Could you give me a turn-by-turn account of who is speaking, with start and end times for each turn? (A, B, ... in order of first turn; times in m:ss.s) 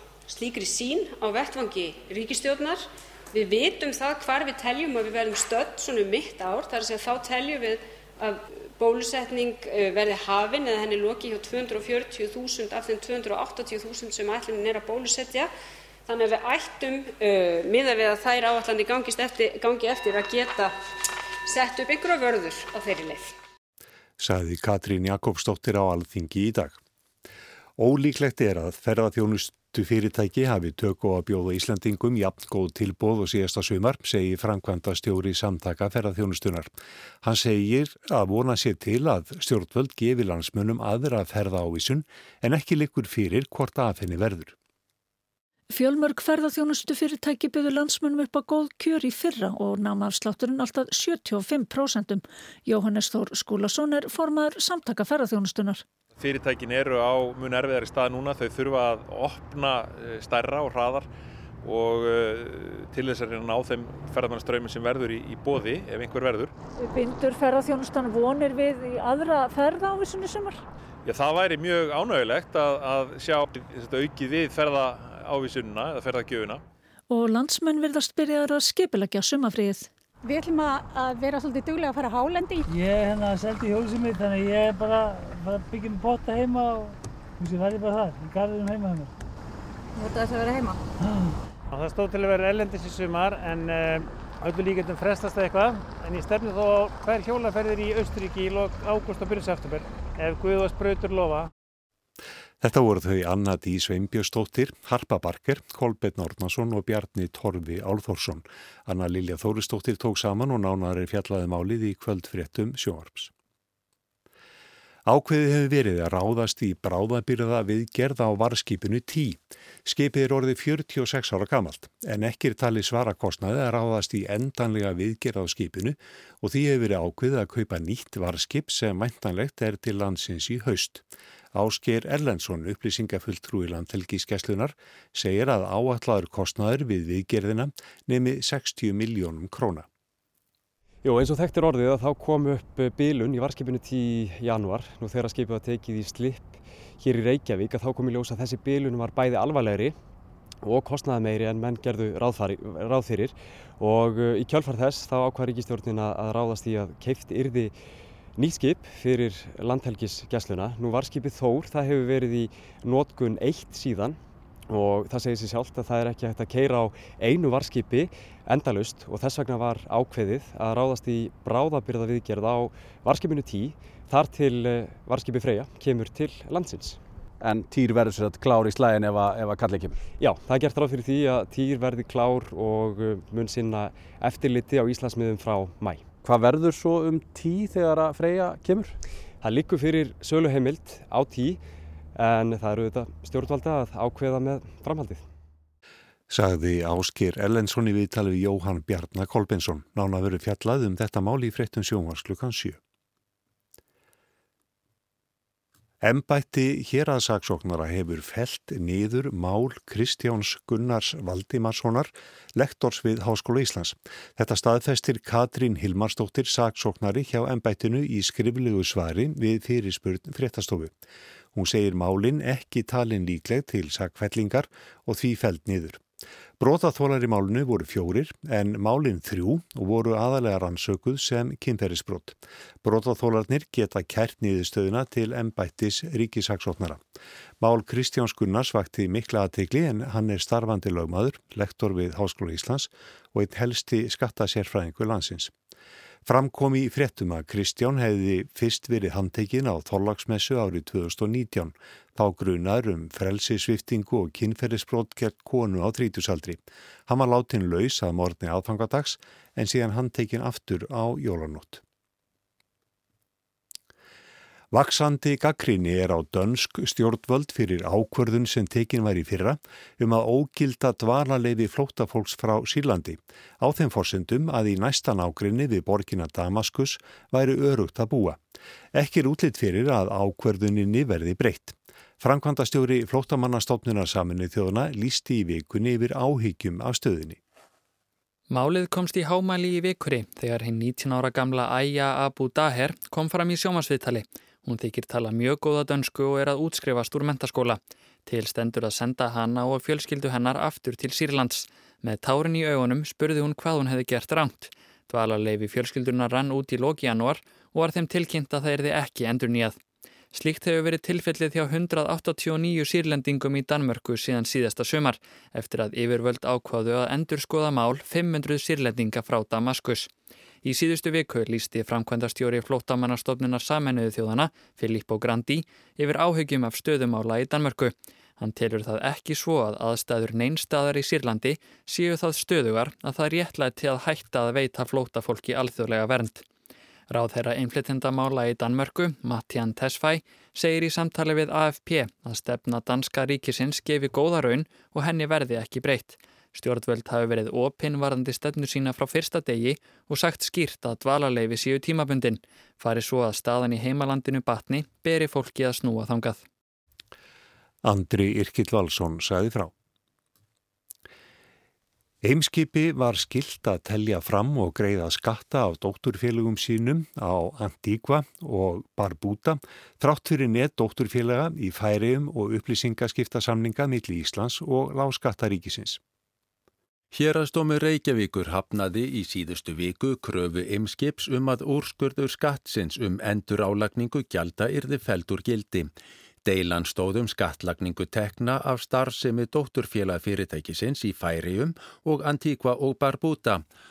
0:00.3-0:15.5 A
0:16.1-0:20.8 A
0:21.5-0:23.4 A
0:24.2-0:26.8 B
0:27.8-0:36.7 B
0:37.2-0:44.6 B
0:45.7-0:55.8 C
0:56.2-1:01.1 D
1:01.6-1:06.5 D
1:06.8-1:10.6 C
1:11.0-1:16.6 D
1:17.1-1:19.9 C
1:20.3-1:22.5 E
1:22.5-1:29.1 F
1:30.0-1:30.7 E
1:30.0-1:41.5 F
1:42.6-1:53.3 B
1:55.0-2:19.9 B
2:21.0-2:30.0 G
2:30.6-2:37.8 G
2:38.4-2:57.0 G
2:57.4-3:00.1 H
3:00.2-3:06.2 G
3:06.2-3:09.0 H
3:09.4-3:11.6 G
3:12.2-3:15.2 G
3:16.3-3:22.8 B
3:26.0-3:40.9 B
3:41.5-3:46.0 B
3:46.6-3:57.0 B
3:57.6-4:05.5 B
4:06.2-4:21.8 B
4:24.7-4:38.4 B
4:38.9-4:47.4 B
4:48.5-5:09.8 I
5:10.3-5:20.1 I
5:20.6-5:36.4 I
5:37.1-5:56.4 I
5:57.8-5:59.7 B
6:02.2-6:16.0 B
6:17.1-6:25.9 J
6:26.4-6:33.6 J